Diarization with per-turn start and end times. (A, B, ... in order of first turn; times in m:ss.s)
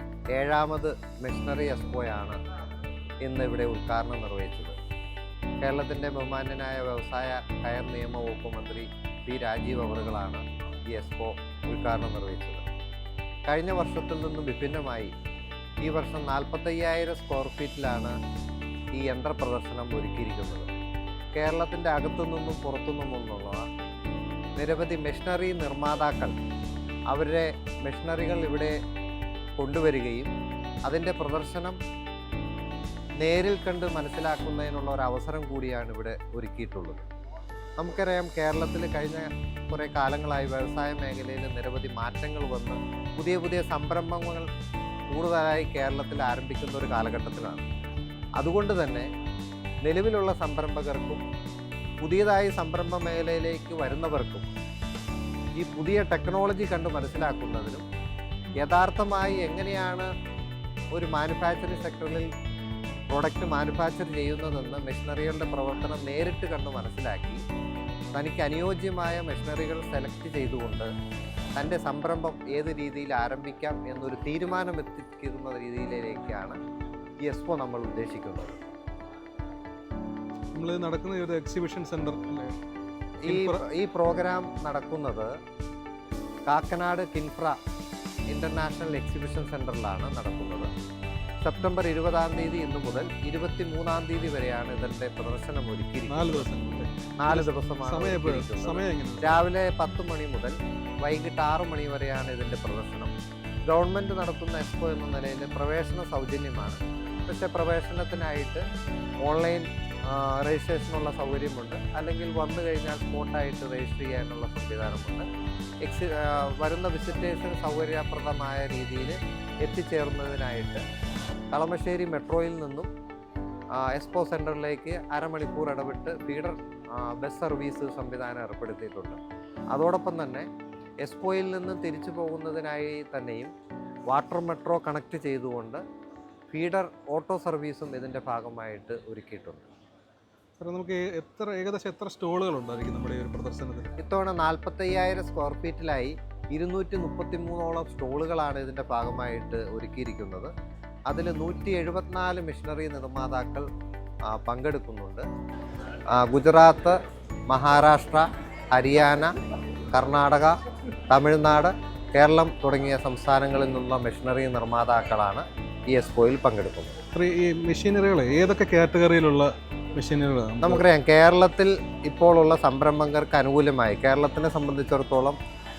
0:00.4-0:02.4 A
0:03.2-0:04.8 A
0:05.6-0:12.6 A
0:13.5-0:15.1 A
0:15.8-0:18.2 A
0:18.9-0:20.7 A
0:21.4-0:23.7 A
0:24.6-0:26.4 A
0:27.1-0:28.8 A
0:29.6-0:30.3 A
0:30.9-0:31.8 A
0:33.2-0:37.0 A
0:37.8-0:44.5 A
0:45.1-0:47.6 A
0:48.4-0:49.1 A
0:49.8-0:51.2 A
0:52.0-0:54.5 A
0:55.6-0:57.8 A
0:58.6-1:00.1 A
1:00.9-1:02.3 A
1:03.1-1:07.4 A
1:08.2-1:10.9 A
1:11.6-1:16.6 A
1:17.2-1:18.6 A
1:20.5-1:22.6 B
1:23.2-1:25.3 A
1:23.3-1:23.6 B
1:26.5-1:27.6 A
1:28.3-1:30.7 A
1:31.4-1:36.5 A
1:36.1-1:39.3 B
1:37.2-1:43.1 A
1:43.7-1:48.6 A
1:49.2-1:55.3 A
1:55.8-2:00.8 A
2:01.5-2:02.9 A
2:03.8-2:09.2 A
2:09.7-2:10.5 A
2:11.0-2:13.5 A
2:14.1-2:15.8 A
2:16.5-2:19.7 A
2:20.6-2:23.9 B
2:24.0-2:30.5 A
2:31.1-2:33.7 A
2:34.3-2:35.2 A
2:36.1-2:37.0 A
2:37.5-2:39.3 A
2:39.9-2:40.6 A
2:41.1-2:47.0 A
2:47.2-2:50.8 B
2:50.6-2:55.4 A